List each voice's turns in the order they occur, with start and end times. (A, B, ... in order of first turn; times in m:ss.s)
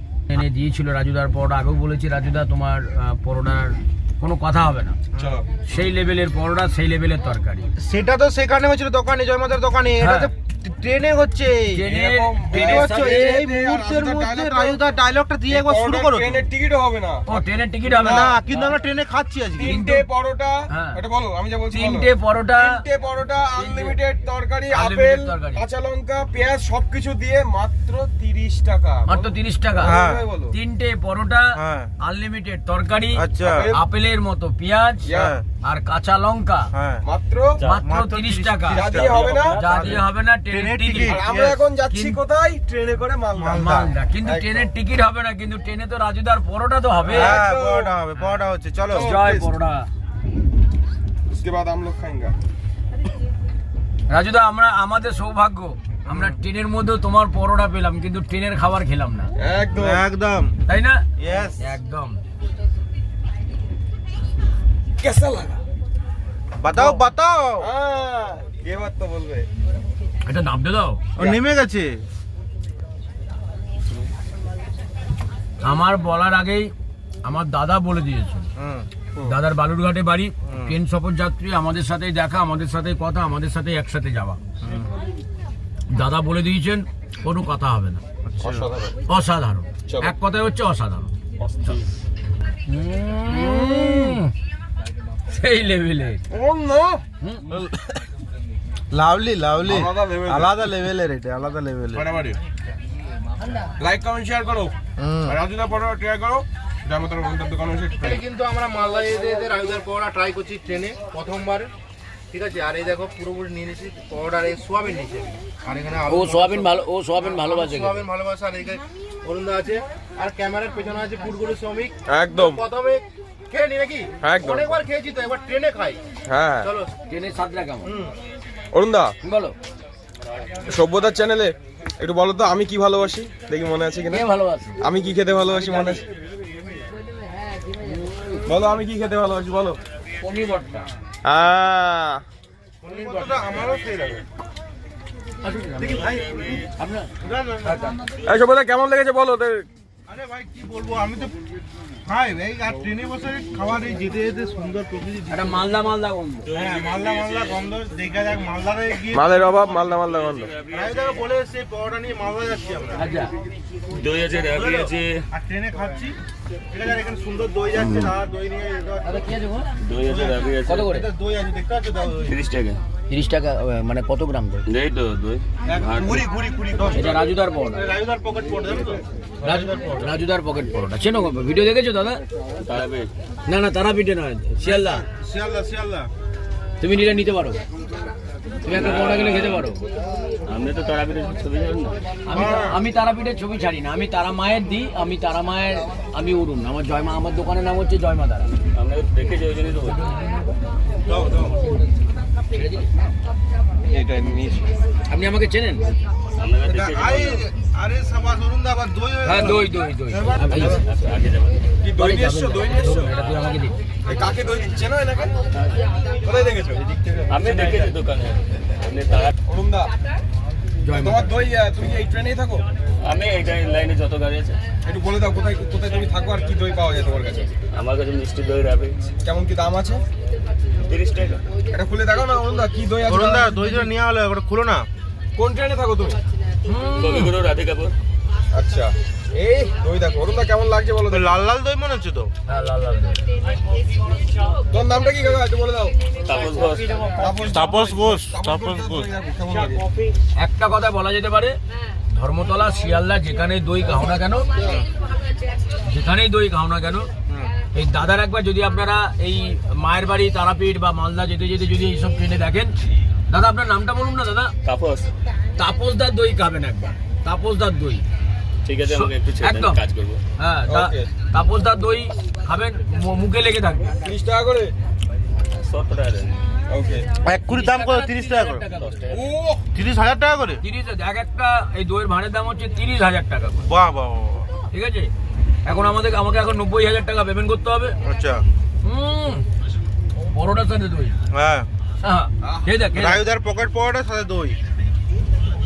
0:00.3-0:05.0 A
0:05.2-0:05.9 B
0:05.6-0:07.7 A
0:07.8-0:11.8 C
0:10.0-0:10.3 A
0:11.7-0:13.4 A
0:11.8-0:14.8 B
0:12.5-0:16.5 C
0:15.5-0:17.2 B
0:17.3-0:18.4 A
0:17.8-0:18.7 B
0:18.0-0:19.8 C
0:19.6-0:30.5 B
0:19.6-0:20.0 A
0:20.7-0:21.0 A
0:21.7-0:22.8 A
0:23.5-0:24.0 A
0:24.7-0:25.6 A
0:29.1-0:30.0 A
0:29.8-0:30.2 C
0:30.5-0:36.7 A
0:31.5-0:31.9 C
0:33.1-0:33.7 C
0:33.4-0:33.8 B
0:35.0-0:35.4 B
0:35.1-0:35.4 C
0:36.7-0:37.0 C
0:37.0-0:37.6 B
0:37.6-0:42.2 A
0:37.8-0:41.6 C
0:38.7-0:39.6 B
0:39.0-0:39.6 D
0:41.0-0:44.7 B
0:43.3-0:43.9 C
0:43.6-0:47.5 A
0:47.0-0:47.9 B
0:47.1-0:49.2 C
0:48.9-0:49.5 B
0:48.9-0:49.9 A
0:51.3-0:52.3 B
0:54.1-0:59.3 A
0:56.1-0:56.3 C
0:59.4-1:00.0 B
0:59.8-1:00.5 C
1:00.7-1:01.0 A
1:01.2-1:01.7 C
1:01.6-1:02.2 A
1:05.0-1:05.6 B
1:06.6-1:07.7 C
1:06.7-1:07.0 B
1:07.6-1:09.5 B
1:10.2-1:11.0 A
1:11.2-1:12.0 C
1:15.6-1:16.7 A
1:17.2-1:18.5 A
1:18.6-1:18.9 C
1:19.2-1:24.4 A
1:20.5-1:20.7 C
1:24.6-1:24.9 C
1:25.9-1:28.0 A
1:28.2-1:28.6 C
1:28.4-1:28.9 B
1:29.1-1:31.1 A
1:29.9-1:30.1 B
1:31.4-1:31.8 B
1:32.7-1:34.3 A
1:33.3-1:34.2 B
1:35.3-1:36.2 A
1:36.3-1:37.0 B
1:37.5-1:38.0 C
1:38.9-1:42.0 C
1:39.6-1:40.6 B
1:41.9-1:42.4 B
1:43.8-1:44.7 B
1:45.0-1:45.4 C
1:45.3-1:48.2 B
1:48.0-1:51.7 C
1:52.3-2:06.0 C
1:56.1-1:58.0 A
2:02.1-2:02.6 B
2:04.2-2:04.8 B
2:06.3-2:06.7 B
2:06.6-2:06.9 C
2:07.1-2:07.9 A
2:07.8-2:08.1 C
2:08.7-2:09.1 B
2:09.2-2:09.6 A
2:10.6-2:14.2 B
2:14.1-2:14.8 A
2:14.8-2:16.0 B
2:17.8-2:18.4 A
2:18.4-2:19.8 B
2:20.2-2:20.9 A
2:21.2-2:22.2 B
2:22.8-2:24.2 C
2:25.4-2:26.1 A
2:25.8-2:26.6 C
2:25.8-2:26.7 D
2:26.8-2:27.1 A
2:27.2-2:27.9 C
2:27.6-2:28.0 A
2:28.2-2:29.7 B
2:30.1-2:31.3 C
2:32.0-2:35.6 C
2:35.3-2:36.5 A
2:36.5-2:37.5 D
2:36.5-2:39.9 C
2:39.1-2:40.5 B
2:40.1-2:40.9 D
2:40.7-2:43.0 C
2:42.9-2:43.3 A
2:43.9-2:45.2 D
2:44.5-2:46.2 C
2:46.7-2:49.3 C
2:47.8-2:48.1 A
2:49.0-2:49.7 A
2:49.8-2:50.9 D
2:50.0-2:52.4 C
2:50.6-2:51.1 A
2:52.2-2:52.8 D
2:53.1-2:54.6 A
2:54.6-2:56.3 D
2:55.7-2:57.2 C
2:56.0-2:57.1 B
2:56.9-2:57.8 A
2:57.7-3:00.1 C
2:59.4-3:02.2 A
3:02.6-3:03.1 D
3:03.4-3:05.0 A
3:04.6-3:06.1 C
3:06.8-3:07.6 A
3:08.6-3:09.8 A
3:08.7-3:09.6 D
3:10.4-3:12.0 D
3:12.2-3:18.5 A
3:12.3-3:12.8 C
3:18.7-3:20.0 D
3:21.0-3:21.6 C
3:22.5-3:22.9 A
3:23.8-3:24.7 B
3:25.1-3:25.9 A
3:26.4-3:27.4 D
3:26.6-3:30.7 C
3:29.2-3:30.8 A
3:30.5-3:30.8 B
3:30.5-3:31.6 D
3:31.8-3:33.1 B
3:31.9-3:33.8 A
3:34.0-3:35.4 B
3:35.5-3:35.8 D
3:36.2-3:37.9 B
3:37.3-3:39.3 D
3:39.4-3:39.9 B
3:40.8-3:41.4 A
3:40.9-3:42.6 B
3:43.0-3:44.6 D
3:44.8-3:47.5 B
3:47.7-3:49.1 D
3:49.2-3:50.0 B
3:50.8-3:51.4 D
3:51.7-3:53.8 B
3:53.0-3:54.9 C
3:55.4-3:56.2 B
3:56.6-3:57.4 A
3:57.0-3:57.9 D
3:58.5-4:01.4 B
4:01.1-4:02.3 C
4:02.4-4:03.2 A
4:04.7-4:06.0 B
4:06.2-4:07.2 D
4:07.2-4:09.8 B
4:07.4-4:09.1 C
4:10.4-4:11.6 A
4:12.1-4:14.5 A
4:15.8-4:17.1 A
4:17.7-4:22.7 A
4:23.3-4:24.5 A
4:24.6-4:25.1 D
4:25.6-4:28.0 A
4:28.6-4:30.2 D
4:28.8-4:29.8 A
4:30.4-4:34.0 A
4:30.7-4:31.1 B
4:34.0-4:34.7 B
4:35.6-4:36.4 D
4:36.7-4:37.1 B
4:37.2-4:38.6 C
4:37.3-4:39.0 A
4:38.8-4:39.2 D
4:39.1-4:39.7 B
4:39.7-4:40.6 C
4:40.6-4:43.7 A
4:43.6-4:44.5 C
4:44.7-4:45.1 A
4:45.6-4:48.0 A
4:48.0-4:48.4 C
4:48.8-4:49.4 A
4:50.3-4:51.2 A
4:51.3-4:51.7 C
4:52.0-4:53.2 A
4:52.4-4:52.8 B
4:52.9-4:54.6 C